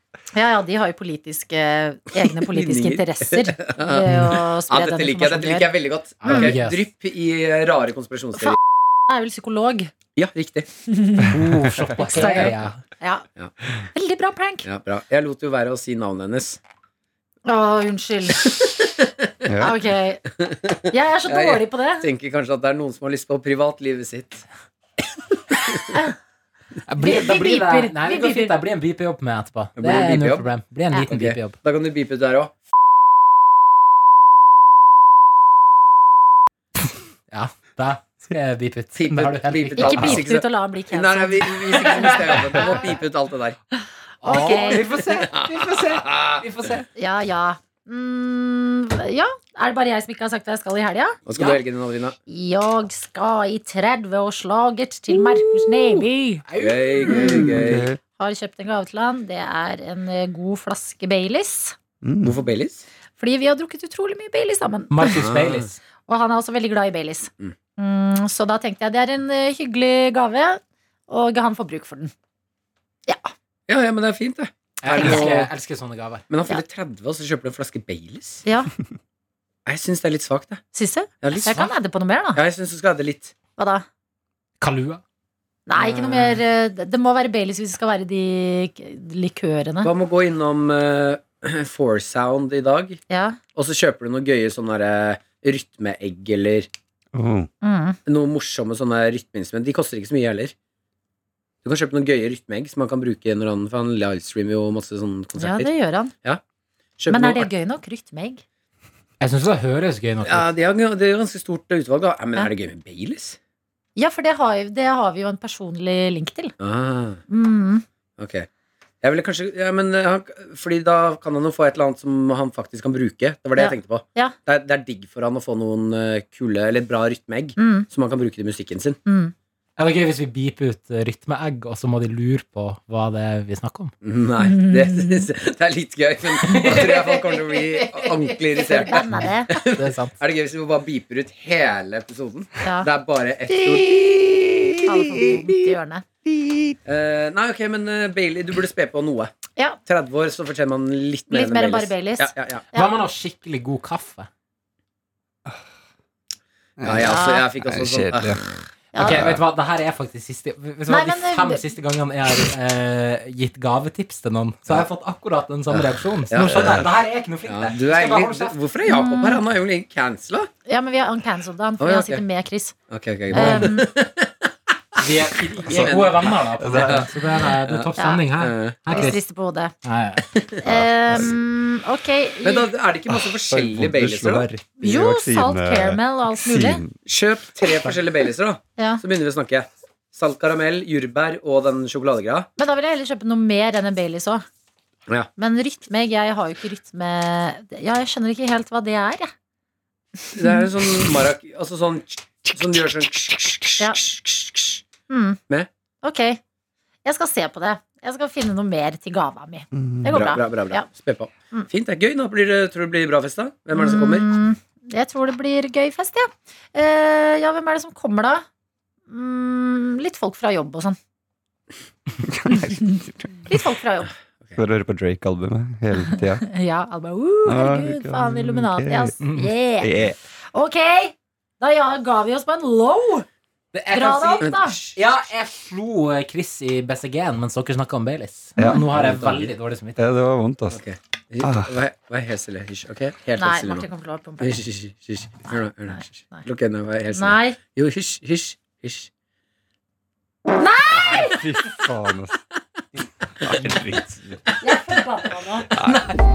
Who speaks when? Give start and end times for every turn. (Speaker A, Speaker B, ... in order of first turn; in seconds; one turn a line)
Speaker A: 0.3-5.7
Speaker B: 2.2-8.6
Speaker C: 6.2-6.8
Speaker A: 6.2-6.5
Speaker A: 8.4-9.9
Speaker B: 10.2-10.7
Speaker A: 10.9-11.3
Speaker C: 11.2-12.8
Speaker A: 12.0-14.7
Speaker B: 14.6-16.6
Speaker A: 17.4-18.6
Speaker B: 18.5-19.1
Speaker D: 19.4-19.8
Speaker A: 19.6-22.1
Speaker B: 20.4-24.5
Speaker B: 25.5-25.8
Speaker A: 25.9-26.1
Speaker C: 26.9-31.6
Speaker A: 27.0-28.5
Speaker B: 29.8-30.5
Speaker B: 31.1-32.6
Speaker C: 37.3-40.3
Speaker B: 39.0-43.6
Speaker A: 39.8-42.9
Speaker C: 41.7-42.9
Speaker C: 44.2-46.9
Speaker A: 44.2-44.9
Speaker B: 45.3-46.4
Speaker A: 47.0-51.6
Speaker B: 51.2-52.1
Speaker A: 52.3-56.4
Speaker C: 56.4-57.5
Speaker B: 56.6-57.9
Speaker A: 57.1-57.3
Speaker D: 57.4-58.0
Speaker A: 58.2-61.8
Speaker D: 62.0-62.4
Speaker B: 62.2-62.8
Speaker A: 63.2-65.2
Speaker C: 64.9-65.8
Speaker B: 65.1-65.7
Speaker A: 66.0-72.1
Speaker B: 73.7-75.5
Speaker C: 74.8-76.2
Speaker A: 74.9-75.4
Speaker B: 76.3-78.4
Speaker A: 78.5-78.7
Speaker B: 79.7-80.6
Speaker A: 80.7-82.4
Speaker B: 81.2-81.7
Speaker B: 82.3-83.3
Speaker A: 83.6-83.8
Speaker C: 84.6-85.0
Speaker A: 85.7-89.9
Speaker B: 85.8-86.4
Speaker B: 89.8-93.0
Speaker A: 93.1-93.4
Speaker B: 93.5-96.7
Speaker D: 97.1-97.5
Speaker A: 97.6-98.0
Speaker B: 98.1-100.5
Speaker B: 101.6-105.7
Speaker A: 105.4-106.1
Speaker B: 107.0-107.5
Speaker A: 107.1-108.4
Speaker C: 109.2-110.5
Speaker B: 110.2-113.4
Speaker A: 114.0-116.5
Speaker B: 116.6-117.2
Speaker A: 117.3-117.8
Speaker B: 118.2-118.5
Speaker B: 119.0-129.0
Speaker A: 123.6-124.3
Speaker A: 127.6-127.9
Speaker A: 129.1-129.3
Speaker C: 129.8-133.9
Speaker B: 134.0-144.1
Speaker A: 134.4-135.1
Speaker C: 136.4-140.2
Speaker A: 138.6-139.5
Speaker A: 142.6-142.9
Speaker D: 143.7-144.7
Speaker A: 144.8-146.1
Speaker D: 146.3-146.7
Speaker B: 146.9-149.3
Speaker B: 149.9-152.7
Speaker A: 151.3-153.0
Speaker C: 152.7-154.3
Speaker D: 156.8-159.4
Speaker B: 156.8-158.5
Speaker A: 157.0-157.5
Speaker A: 158.9-159.2
Speaker C: 158.9-168.6
Speaker A: 160.9-161.6
Speaker B: 166.3-166.7
Speaker D: 166.4-167.0
Speaker B: 167.4-170.5
Speaker A: 168.9-169.4
Speaker A: 170.7-172.7
Speaker B: 171.8-172.2
Speaker B: 172.9-175.0
Speaker C: 173.3-173.7
Speaker A: 173.3-173.9
Speaker C: 175.0-179.2
Speaker B: 175.6-179.1
Speaker D: 176.6-177.1
Speaker A: 178.0-178.2
Speaker A: 178.9-179.7
Speaker C: 179.8-180.2
Speaker B: 180.3-180.8
Speaker A: 180.6-182.7
Speaker B: 182.4-184.5
Speaker D: 183.1-186.9
Speaker A: 184.8-186.8
Speaker B: 187.1-192.5
Speaker A: 192.6-194.4
Speaker A: 195.4-199.3
Speaker B: 200.3-204.8
Speaker A: 205.1-205.4
Speaker A: 206.0-206.4
Speaker A: 207.1-210.8
Speaker D: 209.7-210.2
Speaker B: 210.1-214.3
Speaker A: 213.7-218.5
Speaker A: 219.1-221.0
Speaker D: 222.2-223.2
Speaker A: 222.5-222.8
Speaker A: 223.4-224.1
Speaker D: 224.6-226.5
Speaker A: 226.0-233.2
Speaker D: 227.4-229.2
Speaker C: 229.2-229.5
Speaker D: 229.8-230.2
Speaker C: 233.7-240.0
Speaker A: 233.9-234.8
Speaker B: 234.4-235.0
Speaker D: 238.6-238.9
Speaker B: 238.9-239.5
Speaker D: 240.0-240.8
Speaker B: 240.7-243.9
Speaker D: 241.4-241.7
Speaker A: 243.4-244.6
Speaker B: 244.4-249.1
Speaker A: 245.5-246.4
Speaker A: 247.1-247.6
Speaker A: 250.6-251.4
Speaker D: 251.0-252.4
Speaker D: 253.4-254.4
Speaker A: 254.6-255.7
Speaker D: 255.7-256.1
Speaker B: 255.8-256.2